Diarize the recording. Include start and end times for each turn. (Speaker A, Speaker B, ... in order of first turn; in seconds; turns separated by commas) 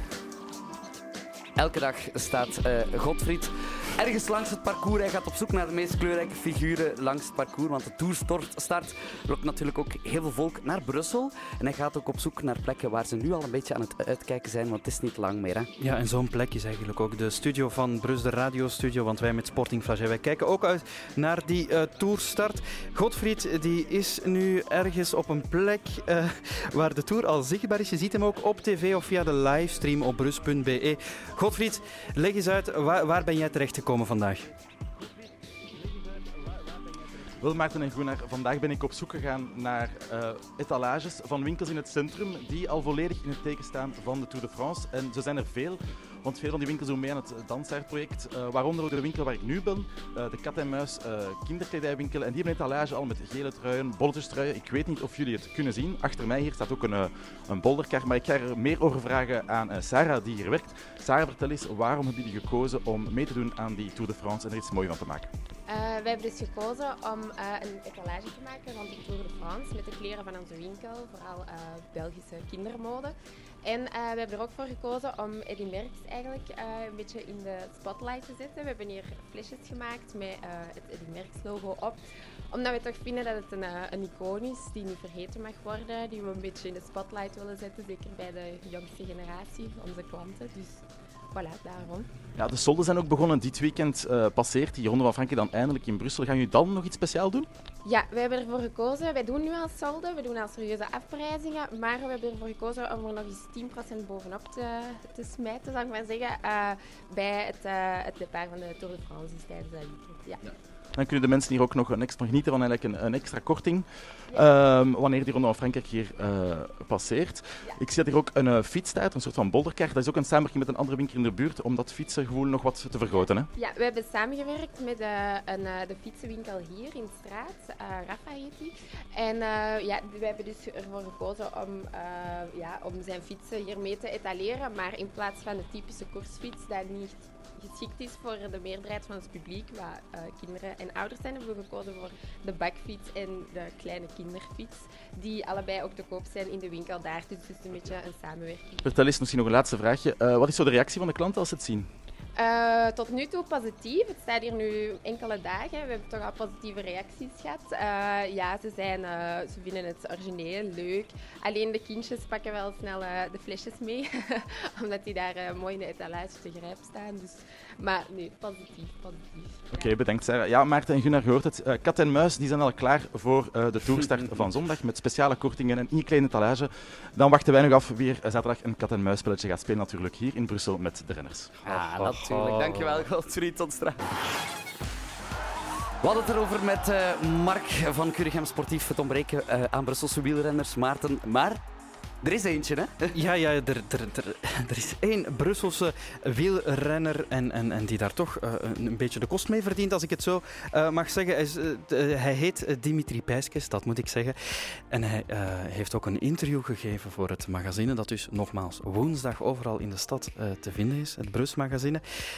Speaker A: 1.6-15.7, Speaker B: 15.8-34.5, Speaker C: 37.4-65.3, Speaker D: 65.7-92.1, Speaker C: 92.3-97.5, Speaker D: 97.8-110.5, Speaker C: 110.9-123.5, Speaker D: 123.1-148.9, Speaker C: 148.8-151.9, Speaker D: 152.3-169.9, Speaker C: 169.7-181.6, Speaker A: 181.6-184.1, Speaker B: 181.7-183.0, Speaker A: 186.0-191.6, Speaker A: 192.2-193.2, Speaker B: 193.1-212.0